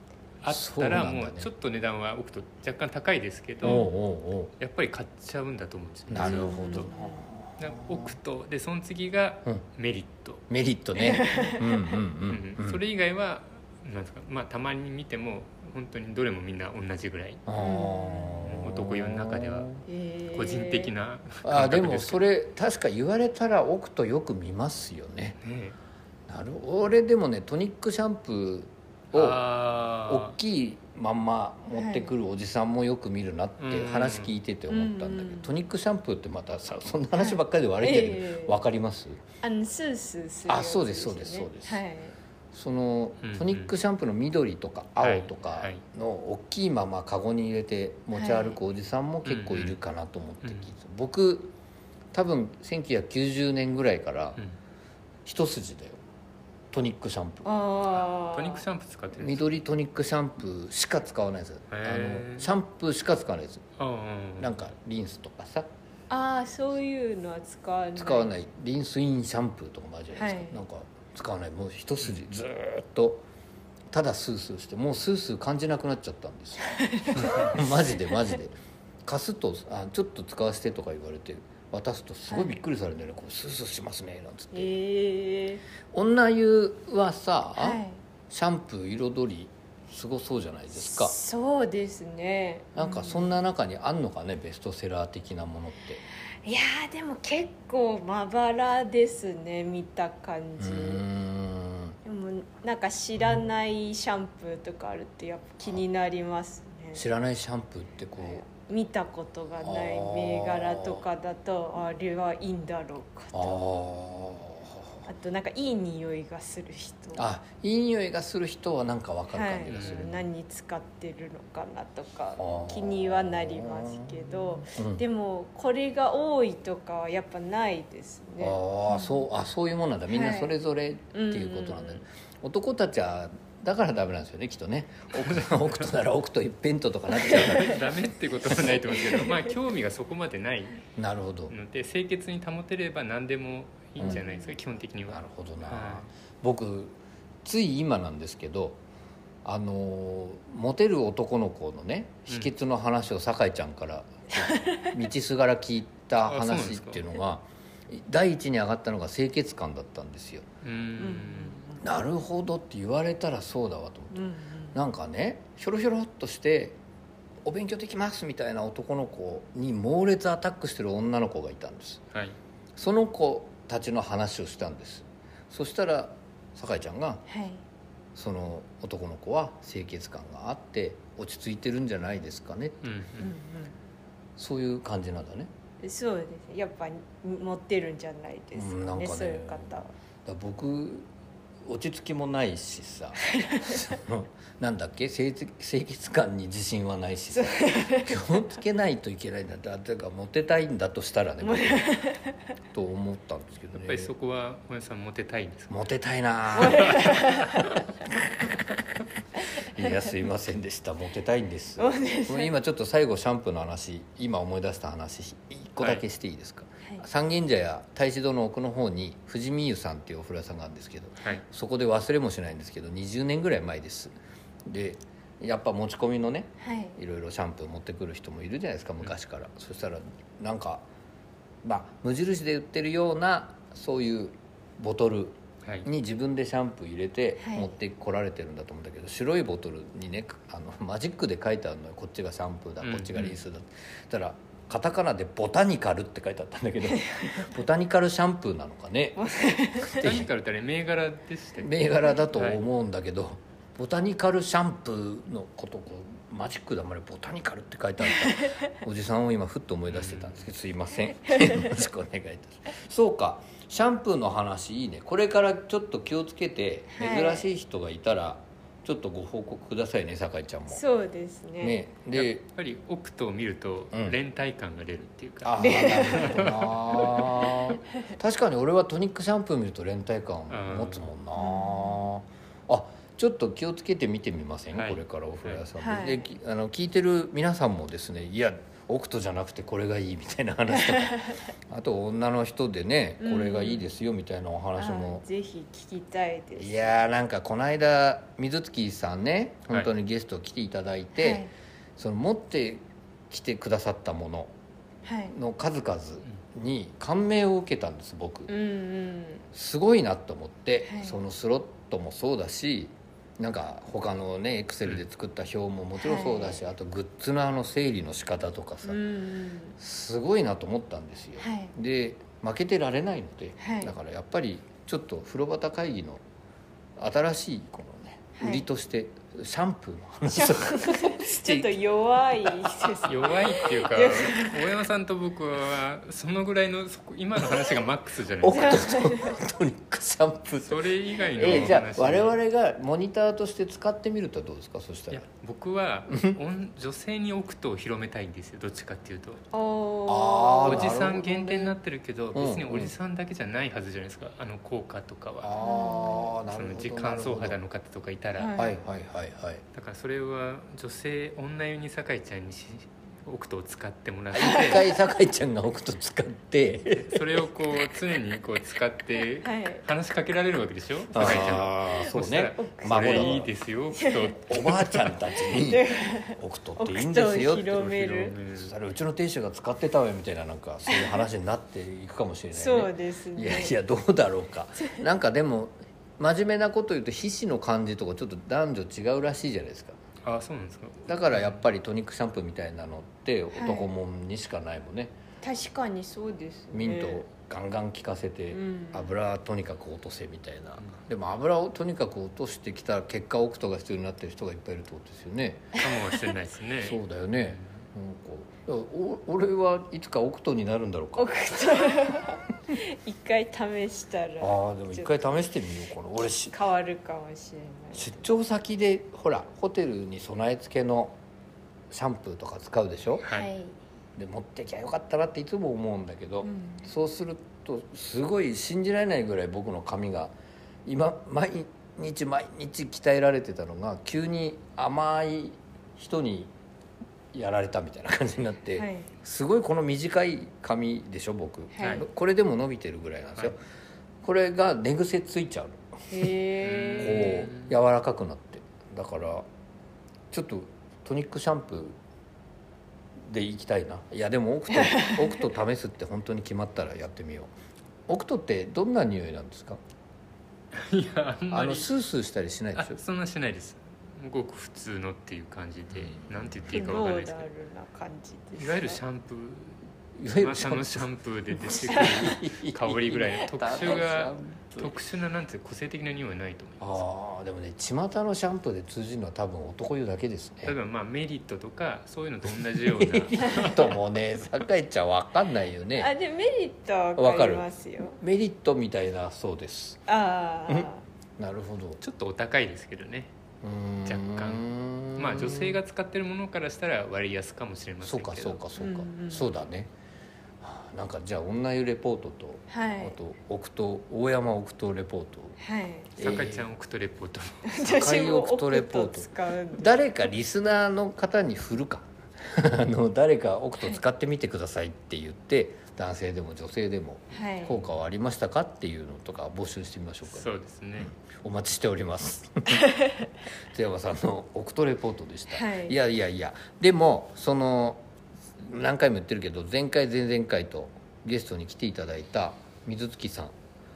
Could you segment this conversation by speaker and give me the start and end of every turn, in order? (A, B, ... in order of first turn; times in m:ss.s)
0:00.4-0:03.9 A
0:00.4-0:01.5 B
0:03.6-0:04.5 B
0:04.6-0:06.9 A
0:06.1-0:08.1 B
0:06.2-0:07.2 C
0:07.6-0:10.4 A
0:10.5-0:12.8 B
0:11.0-0:12.0 C
0:12.3-0:17.4 A
0:17.5-0:19.8 B
0:17.6-0:18.5 C
0:18.5-0:19.8 A
0:19.9-0:20.9 C
0:20.3-0:22.3 A
0:21.4-0:25.4 B
0:25.4-0:25.8 A
0:26.3-0:29.4 B
0:29.1-0:30.3 A
0:30.0-0:39.2 B
0:31.7-0:32.1 C
0:33.6-0:34.3 A
0:34.7-0:35.5 C
0:37.2-0:38.5 C
0:39.4-0:42.2 C
0:40.5-0:41.8 B
0:42.5-0:51.6 B
0:43.2-0:43.7 A
0:45.0-0:45.8 A
0:48.1-0:48.6 C
0:49.2-0:49.8 A
0:50.4-0:50.7 A
0:52.1-0:54.4 B
0:55.2-0:56.0 B
0:56.7-0:57.5 B
0:57.4-0:58.6 C
0:58.2-0:59.6 A
0:59.2-1:03.6 B
1:01.7-1:02.5 A
1:03.8-1:04.7 A
1:04.4-1:05.7 B
1:06.1-1:08.3 C
1:08.0-1:13.2 B
1:10.1-1:10.6 C
1:13.9-1:24.7 B
1:16.6-1:17.6 C
1:22.3-1:22.5 C
1:24.5-1:25.6 C
1:25.9-1:31.1 B
1:27.6-1:28.0 C
1:30.7-1:33.3 C
1:32.7-1:36.0 B
1:36.4-1:41.0 C
1:40.6-1:42.0 B
1:42.0-1:47.0 C
1:46.9-1:48.4 B
1:48.2-1:53.6 C
1:49.6-1:51.0 B
1:53.3-1:54.9 B
1:55.0-1:57.2 C
1:57.1-2:00.2 B
1:59.3-2:09.2 C
1:59.7-2:00.1 A
2:02.4-2:05.0 B
2:08.4-2:17.8 B
2:10.1-2:10.5 C
2:11.1-2:12.0 C
2:15.1-2:15.9 A
2:17.2-2:20.8 A
2:18.5-2:18.8 B
2:21.0-2:21.5 B
2:21.5-2:26.1 A
2:24.0-2:24.2 B
2:24.0-2:24.5 C
2:25.1-2:28.8 B
2:29.4-2:40.5 B
2:34.3-2:34.9 C
2:36.2-2:37.1 A
2:40.6-2:41.6 A
2:41.0-2:41.8 C
2:41.8-2:46.8 B
2:44.1-2:44.8 C
2:47.4-2:52.0 B
2:52.8-2:57.2 B
2:57.3-2:57.6 C
2:58.1-3:02.8 B
3:02.8-3:03.3 A
3:03.2-3:03.7 C
3:04.4-3:05.5 B
3:05.8-3:09.9 C
3:08.5-3:11.1 B
3:11.6-3:21.9 B
3:13.2-3:13.9 C
3:17.3-3:18.1 C
3:21.4-3:22.4 C
3:22.7-3:24.1 B
3:23.7-3:25.8 A
3:25.7-3:27.1 B
3:26.6-3:27.7 C
3:26.7-3:27.0 A
3:29.6-3:50.8 B
3:31.8-3:32.5 C
3:46.6-3:47.0 C
3:51.6-4:09.2 B
3:57.4-3:57.7 C
4:02.8-4:03.4 A
4:09.2-4:10.0 C
4:09.8-4:10.3 B
4:10.0-4:12.6 A
4:11.6-4:30.8 B
4:18.2-4:18.6 C
4:19.9-4:20.4 A
4:26.9-4:27.4 C
4:30.7-4:31.8 C
4:31.6-4:32.4 B
4:32.1-4:37.4 A
4:35.4-4:55.2 B
4:35.6-4:36.3 C
4:40.5-4:41.1 A
4:41.4-4:42.0 C
4:44.7-4:45.6 A
4:45.8-4:46.3 C
4:51.0-4:51.4 C
4:53.2-4:53.9 C
4:54.8-4:57.0 C
4:56.6-5:01.4 B
5:01.2-5:01.5 C
5:02.0-5:04.5 B
5:05.0-5:05.3 C
5:05.3-5:08.5 B
5:08.5-5:09.4 C
5:09.5-5:19.0 B
5:10.8-5:11.2 C
5:16.0-5:16.6 C
5:18.8-5:19.8 C
5:19.8-5:26.2 B
5:21.4-5:21.7 C
5:23.6-5:23.9 C
5:27.0-5:31.8 B
5:28.4-5:28.7 C
5:30.3-5:34.6 C
5:33.0-5:38.8 A
5:38.4-5:45.2 B
5:38.5-5:39.4 C
5:40.6-5:42.4 A
5:45.1-5:49.4 A
5:46.1-5:46.4 B
5:49.5-5:51.0 C
5:50.1-5:51.7 B
5:50.6-5:55.6 A
5:52.3-5:52.9 B
5:55.4-5:57.6 B
5:55.6-5:56.3 C
5:56.5-5:58.6 A
5:58.4-5:58.8 C
5:58.5-5:59.6 B
5:59.7-6:04.9 A
6:04.3-6:07.3 B
6:06.9-6:15.2 A
6:09.4-6:09.8 C
6:11.1-6:13.5 B
6:12.5-6:13.4 C
6:14.0-6:14.3 C
6:14.5-6:30.0 B
6:15.5-6:18.3 C
6:18.1-6:18.7 A
6:20.9-6:21.2 C
6:22.5-6:23.8 C
6:30.2-6:31.6 A
6:31.0-6:35.2 B
6:33.5-6:33.9 C
6:35.4-6:37.2 C
6:36.7-6:45.8 B
6:38.5-6:39.1 C
6:45.7-6:47.8 A
6:46.8-6:51.9 B
6:51.2-6:55.3 C
6:54.4-6:56.5 B
6:56.5-6:58.2 C
6:57.9-7:01.2 B
7:01.9-7:03.2 B
7:03.2-7:03.5 A
7:03.2-7:03.8 C
7:04.2-7:10.3 B
7:06.4-7:06.9 C
7:10.8-7:16.5 B
7:17.3-7:23.6 B
7:18.8-7:19.1 C
7:21.7-7:22.0 C
7:24.2-7:25.8 B
7:26.1-7:27.4 C
7:26.6-7:27.8 A
7:27.0-7:29.4 B
7:30.3-7:32.0 B
7:33.2-7:37.5 B
7:34.7-7:35.3 C
7:38.1-7:39.8 B
7:40.7-7:41.9 A
7:41.5-7:43.0 B
7:42.8-7:47.4 A
7:46.0-7:46.7 B
7:46.7-7:49.0 C
7:48.5-7:49.8 A
7:50.2-7:55.0 B
7:50.3-7:57.0 A
7:56.8-8:00.8 B
8:00.6-8:03.9 A
8:03.0-8:06.1 B
8:06.0-8:08.2 C
8:07.2-8:07.7 B
8:08.2-8:10.0 B
8:10.1-8:11.0 C
8:10.7-8:12.0 B
8:12.0-8:13.3 A
8:13.6-8:15.8 B
8:14.0-8:18.6 A
8:18.0-8:19.9 B
8:18.8-8:19.5 C
8:20.6-8:25.6 B
8:22.7-8:23.2 C
8:25.6-8:26.1 C
8:26.2-8:26.7 B
8:26.2-8:27.6 A
8:27.6-8:30.0 C
8:27.8-8:42.8 B
8:37.3-8:37.8 C
8:40.3-8:41.1 A
8:43.7-8:48.0 B
8:45.5-8:46.0 C
8:48.6-8:53.5 B